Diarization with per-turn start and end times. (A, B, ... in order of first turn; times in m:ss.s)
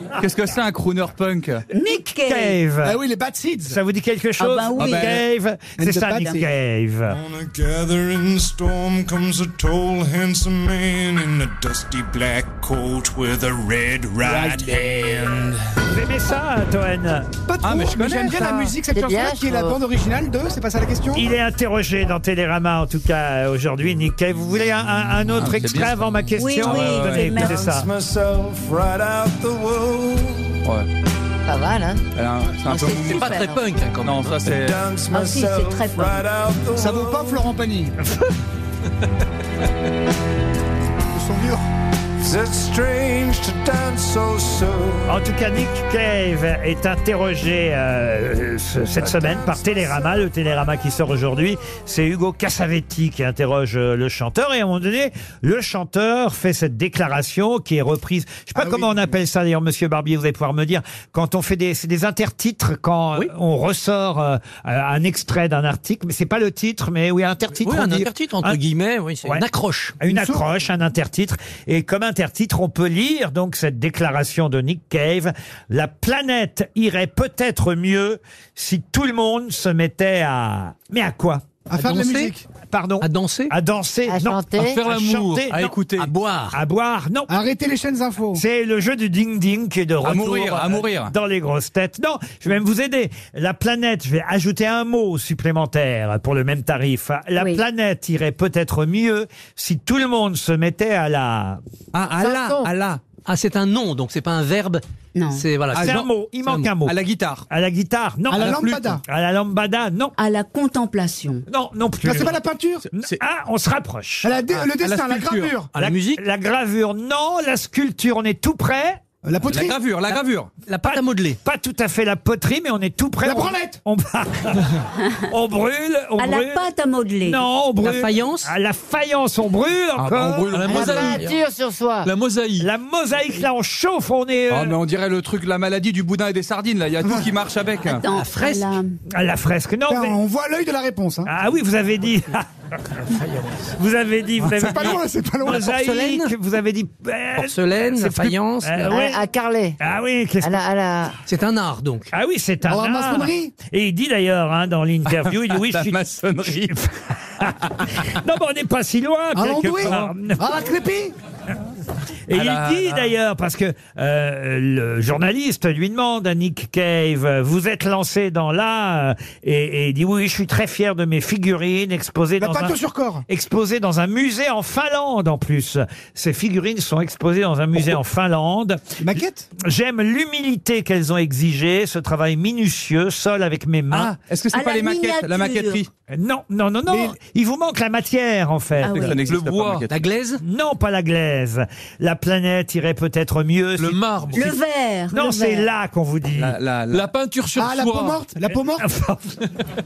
0:00.2-0:01.6 A
0:01.7-0:02.6 B
0:01.8-0:03.0 C
0:02.8-0:03.8 D
0:03.7-0:07.2 C
0:04.4-0:05.1 B
0:04.8-0:05.2 A
0:05.8-0:06.4 D
0:07.1-0:15.6 E
0:14.2-0:14.9 D
0:15.9-0:17.3 C
0:17.5-0:21.3 D
0:17.6-0:18.7 A
0:18.9-0:19.8 F
0:21.1-0:27.9 C
0:25.4-0:27.3 A
0:26.4-0:27.6 B
0:27.3-0:30.6 E
0:31.4-0:32.0 F
0:32.1-0:33.4 A
0:32.7-0:33.6 B
0:32.9-0:34.5 G
0:34.0-0:34.8 A
0:34.5-0:37.4 E
0:35.1-0:36.2 B
0:36.7-0:37.9 D
0:41.1-0:41.6 D
0:42.2-0:45.2 E
0:45.1-1:08.6 C
0:58.6-0:59.0 D
1:07.6-1:10.0 G
1:10.0-1:21.5 C
1:10.1-1:10.4 D
1:21.7-1:22.4 D
1:21.7-1:22.3 G
1:22.7-1:25.7 C
1:23.0-1:23.5 G
1:24.1-1:24.8 F
1:24.8-1:25.5 H
1:25.2-1:26.1 A
1:26.0-1:26.6 G
1:26.5-1:27.3 C
1:27.3-1:28.4 D
1:28.3-1:41.6 C
1:30.0-1:31.1 A
1:41.9-1:43.0 A
1:42.2-1:42.7 F
1:43.2-1:46.7 G
1:45.2-1:45.4 B
1:45.7-1:46.1 A
1:45.8-1:46.9 C
1:46.8-1:47.4 A
1:47.5-1:50.1 C
1:48.3-1:49.0 D
1:48.4-1:48.8 A
1:50.2-1:51.4 B
1:51.5-1:52.4 C
1:52.0-1:52.8 D
1:52.9-1:54.3 C
1:54.2-1:55.7 D
1:54.6-1:55.5 A
1:55.7-1:56.2 G
1:55.7-1:59.0 C
1:59.2-1:59.8 D
1:59.5-2:00.5 A
2:00.1-2:01.4 G
2:00.8-2:04.7 C
2:03.2-2:03.8 D
2:05.3-2:06.6 C
2:06.2-2:07.4 B
2:07.2-2:11.1 C
2:07.8-2:08.5 G
2:10.0-2:11.4 H
2:10.6-2:12.1 F
2:12.0-2:12.7 H
2:12.6-2:14.8 C
2:14.5-2:18.0 A
2:18.0-2:18.9 B
2:18.1-2:18.7 G
2:19.1-2:20.2 C
2:19.9-2:21.3 D
2:21.2-2:23.0 C
2:23.7-2:29.2 C
2:24.4-2:25.7 D
2:25.6-2:26.3 G
2:27.4-2:29.0 G
2:28.9-2:29.8 F
2:29.8-2:30.6 C
2:30.4-2:31.2 F
2:31.2-2:32.1 G
2:32.1-2:40.6 C
2:32.7-2:33.6 D
2:35.1-2:36.7 A
2:39.3-2:41.1 D
2:42.3-2:52.7 C
2:42.3-2:43.1 A
2:52.4-2:53.2 D
2:53.3-3:04.1 C
2:59.0-2:59.5 D
3:03.9-3:05.9 A
3:04.5-3:05.8 B
3:06.1-3:09.2 C
3:06.9-3:07.1 D
3:08.8-3:09.2 B
3:08.9-3:09.9 A
3:09.3-3:09.9 H
3:09.9-3:10.4 G
3:10.4-3:14.0 C
3:13.8-3:14.5 H
3:14.3-3:15.6 B
3:15.1-3:16.6 C
3:16.4-3:17.1 A
3:16.9-3:18.2 H
3:17.6-3:18.8 D
3:18.8-3:19.2 C